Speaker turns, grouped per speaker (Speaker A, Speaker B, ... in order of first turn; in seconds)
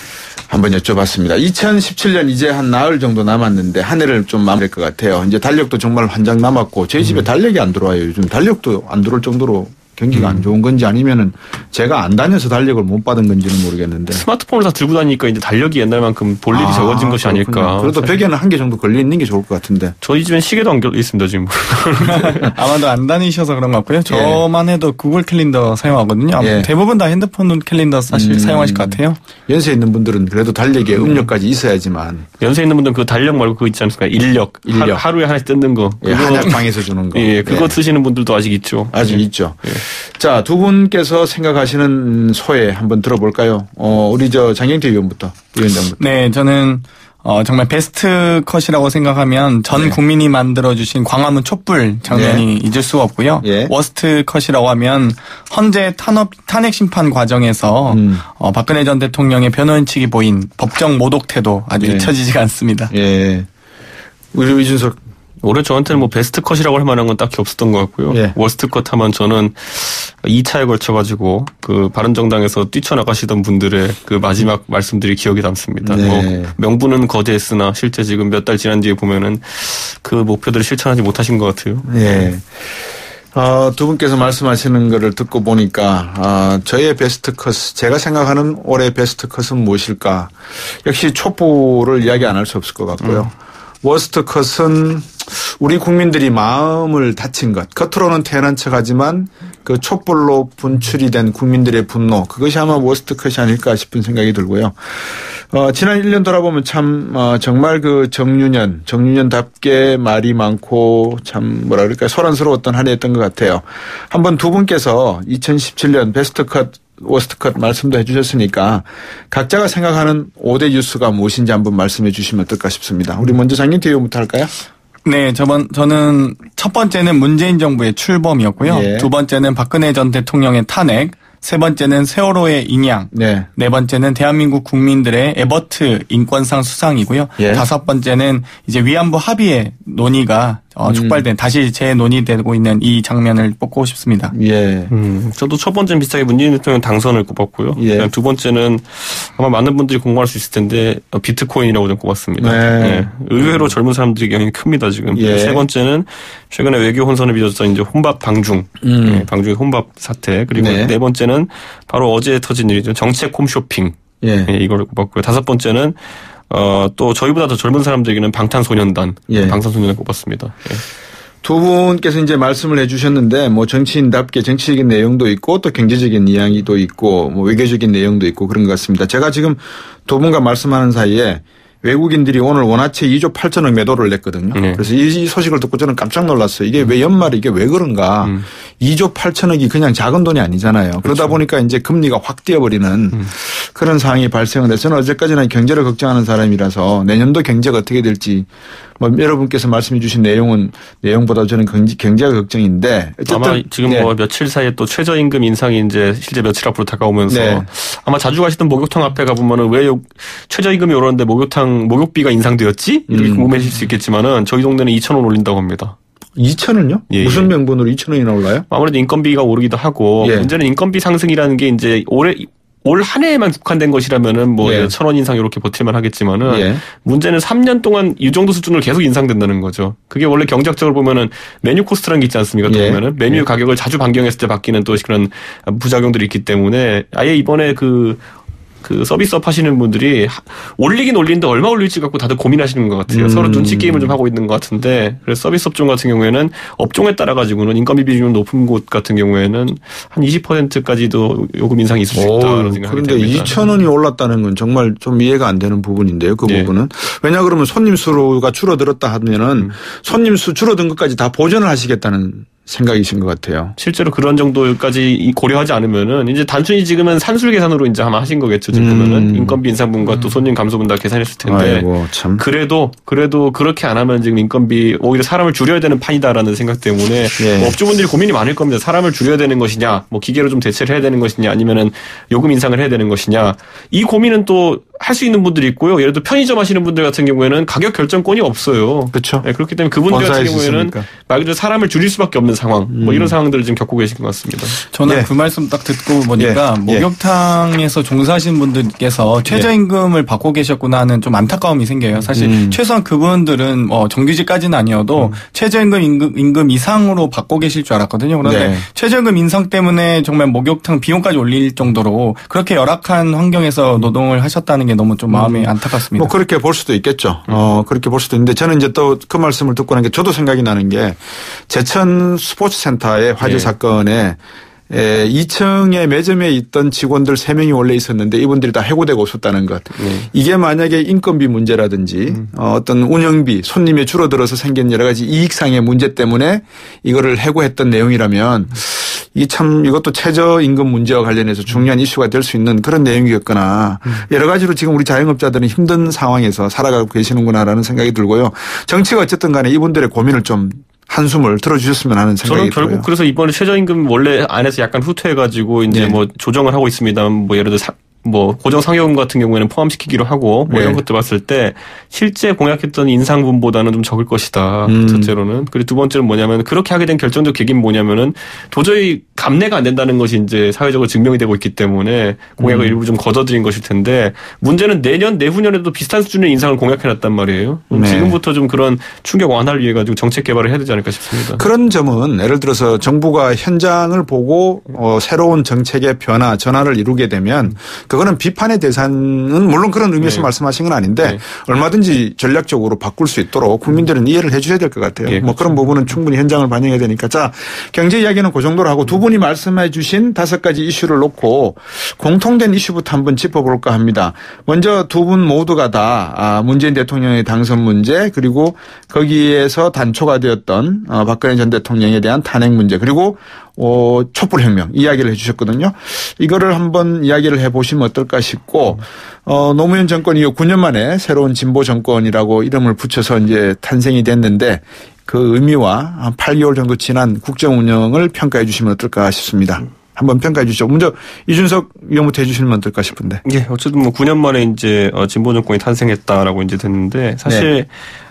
Speaker A: 0.5-14.2, 16.5-19.9, 24.1-24.4, 26.4-26.7, 28.1-32.2, 34.6-35.0, 36.0-37.8, 38.9-46.0, 49.7-50.0, 52.1-52.5, 53.4-53.7, 57.9-58.2, 61.8-62.1, 62.9-63.5, 64.3-65.0, 68.1-68.3, 75.8-76.5, 81.9-82.7, 83.3-93.3, 93.8-124.5, 128.6-129.1, 133.1-133.5, 137.4-137.7, 140.8-141.2, 144.3-144.9, 147.8-148.1, 152.4-153.7, 155.1-155.7, 158.8-159.3, 160.5-160.9, 164.2-164.5, 169.3-169.6, 171.4-198.5, 199.0-204.1, 207.3-207.7, 213.1-213.5, 216.4-218.7, 220.2-220.5, 224.6-224.9, 226.4-226.8, 232.7-233.4, 243.1-244.2, 252.1-263.8, 268.7-269.6, 271.4-272.4, 277.4-277.8, 289.1-289.4, 290.1-291.1, 292.9-293.4, 296.4-297.1, 302.3-302.8, 308.4-308.8, 315.3-324.4, 324.9-353.1, 355.9-356.2, 360.7-361.0, 364.9-365.3, 372.6-373.0, 377.9-378.4, 381.5-433.4
Speaker B: 10.1-10.4, 14.1-18.1, 20.0-22.5, 32.4-39.8, 65.4-82.3, 144.9-165.9, 166.5-170.8, 184.5-184.8, 191.1-191.3, 203.3-215.9, 217.1-217.5, 218.7-238.2, 238.8-253.5, 256.4-256.7, 263.8-294.8, 323.4-323.7, 330.0-330.3, 352.4-381.6, 390.2-390.5, 395.2-395.6, 433.4-437.9
Speaker C: 22.0-29.2, 46.0-62.9, 125.0-144.3, 294.9-316.3